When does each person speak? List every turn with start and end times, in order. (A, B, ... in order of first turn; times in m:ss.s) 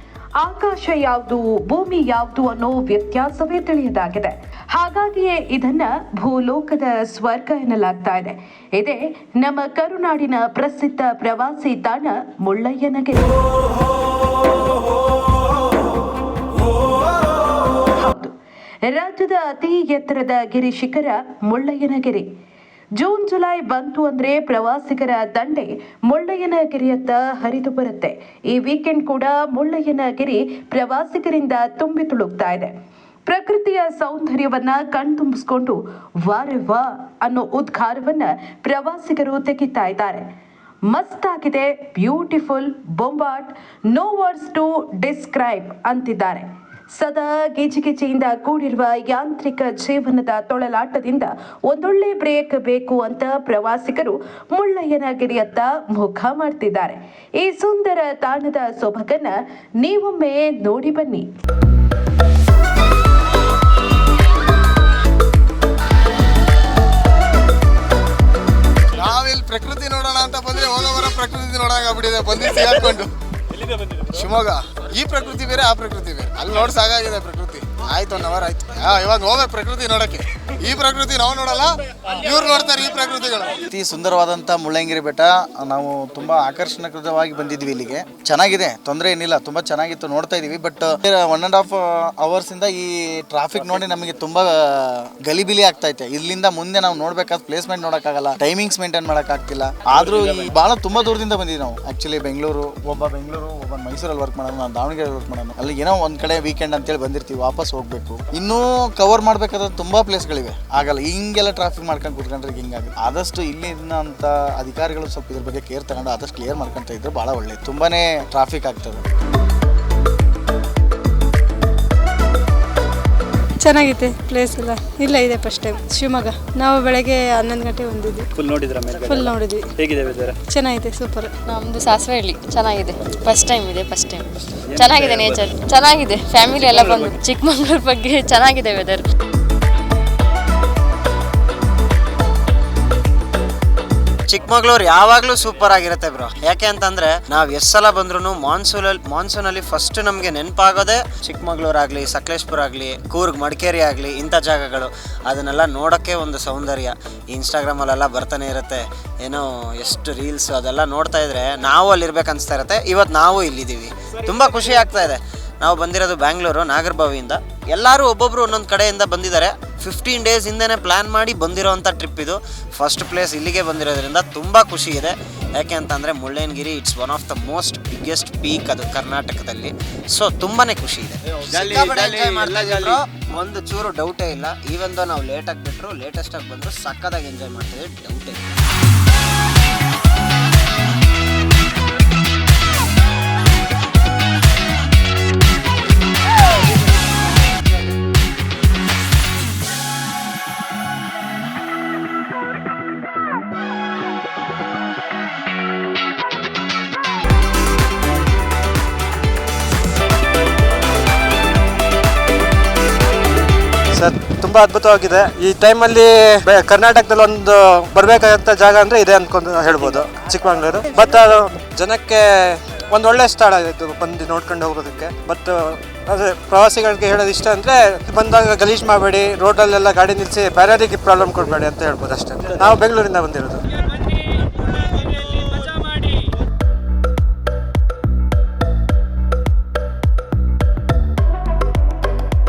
0:00.4-0:13.4 A
0:18.0-0:18.3 A
0:18.9-0:22.3 A
0:23.0-0:32.7 A
0:33.3-0:40.2 A
0:40.9-1:01.3 A
1:09.0-1:13.1 B
1:14.1-1:23.6 B
1:23.7-1:59.0 C
2:03.6-2:08.3 D
2:08.4-2:10.4 E
2:09.0-2:09.7 D
2:10.5-2:11.3 D
2:11.5-2:19.0 F
2:14.7-2:15.5 E
2:16.7-2:17.1 E
2:24.3-3:08.4 G
3:01.5-3:03.0 B
3:33.9-3:53.6 H